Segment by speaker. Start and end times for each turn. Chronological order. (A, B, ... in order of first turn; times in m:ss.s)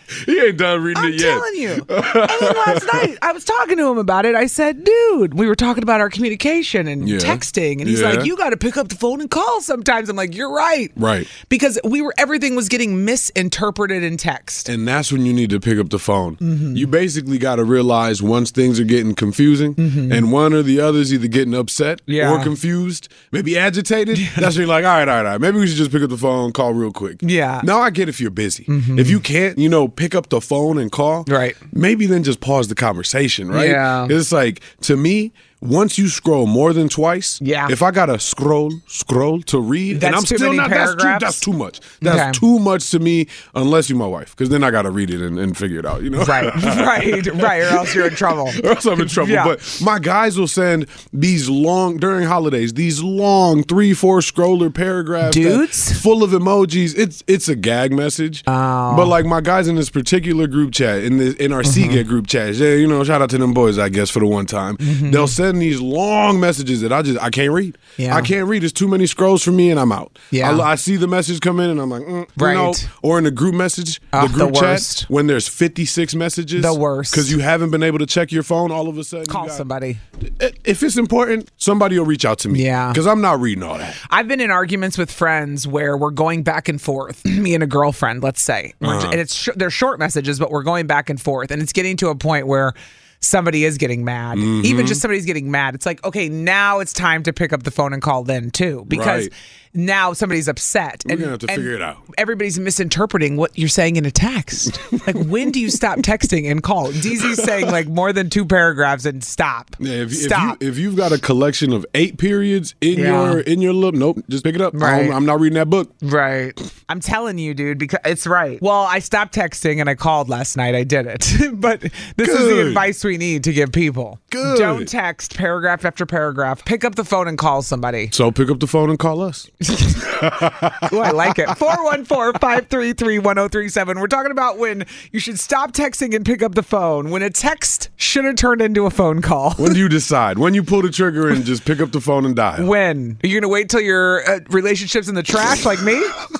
0:00.2-0:03.1 A
0:00.9-0:14.7 B
0:07.0-0:08.3 A
0:11.0-0:11.3 A
0:14.6-1:19.6 A
0:16.4-0:16.9 B
0:19.8-0:20.2 B
0:22.1-0:22.5 B
0:24.2-0:24.5 B
0:27.2-0:27.6 B
0:28.7-0:29.2 B
0:31.3-0:31.6 B
0:33.5-0:34.1 B
0:37.4-0:37.7 B
0:39.9-0:41.4 B
0:42.0-0:42.4 B
0:46.2-0:49.5 B
0:55.2-0:56.0 B
0:58.5-0:59.1 B
1:01.6-1:02.0 B
1:04.8-1:05.4 B
1:08.0-1:08.3 B
1:10.3-1:10.6 B
1:12.4-1:12.9 B
1:14.1-1:15.1 B
1:16.6-1:17.4 B
1:19.3-1:20.0 B
1:20.2-1:24.0 A
1:22.5-1:23.0 B
1:24.0-1:50.6 B
1:28.8-1:29.2 A
1:34.3-1:35.0 A
1:38.9-1:39.3 A
1:41.0-1:42.0 A
1:47.2-1:47.7 A
1:49.8-1:55.9 A
1:52.9-1:53.4 B
1:54.7-1:55.2 B
1:56.0-2:08.1 B
2:02.2-2:02.9 A
2:04.3-2:04.9 A
2:08.1-2:09.5 A
2:09.6-2:19.8 B
2:10.1-2:11.5 A
2:19.6-2:22.7 A
2:22.6-2:26.2 B